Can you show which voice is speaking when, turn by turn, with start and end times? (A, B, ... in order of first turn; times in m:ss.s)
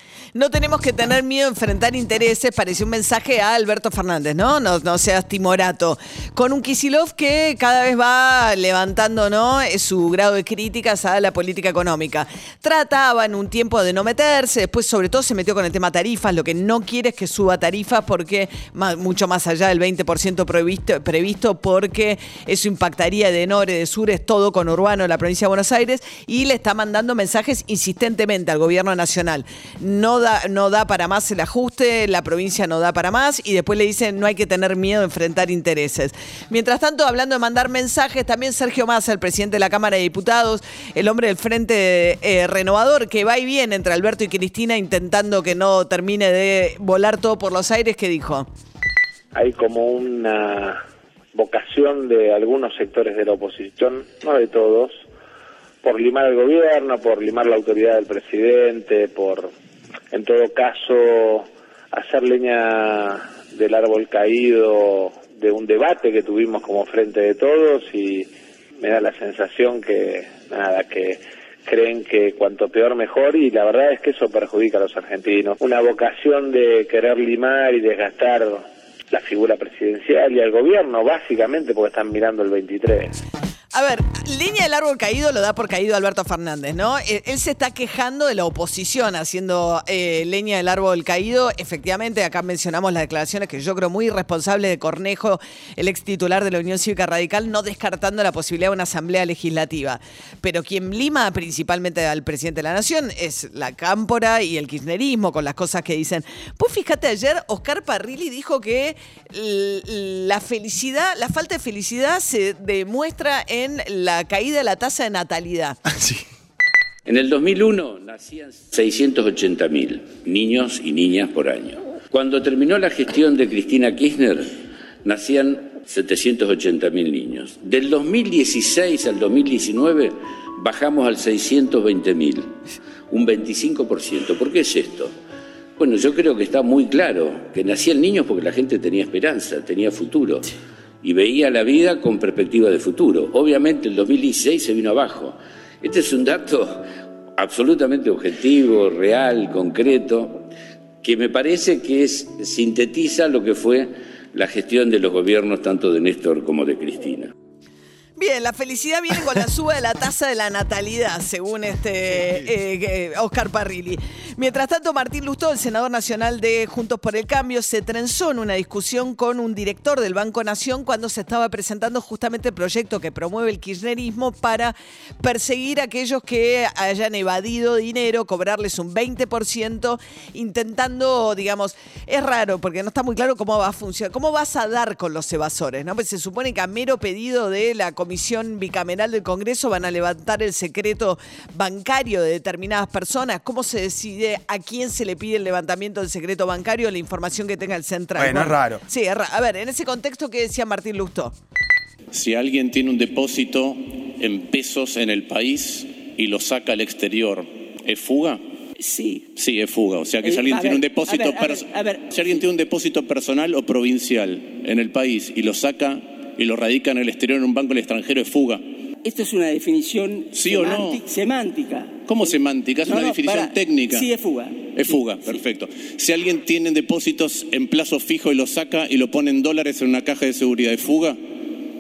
0:00.4-0:48.5 A
0:49.3-0:50.8 B
0:51.3-0:55.0 B
0:55.8-0:59.5 B
1:00.1-1:23.1 B
1:23.7-1:55.8 A
1:57.1-2:04.5 C
2:05.0-2:12.5 C
2:13.1-2:15.1 C
2:15.8-2:20.4 C
2:21.0-2:26.8 C
2:27.4-2:30.4 C
2:31.0-2:37.3 C
2:38.2-3:21.3 A
3:22.1-3:28.4 D
3:28.8-3:29.3 E
3:29.4-3:38.6 D
3:30.2-3:32.1 E
3:39.0-3:45.4 E
3:40.4-3:41.0 D
3:42.1-3:44.1 D
3:44.8-3:51.2 D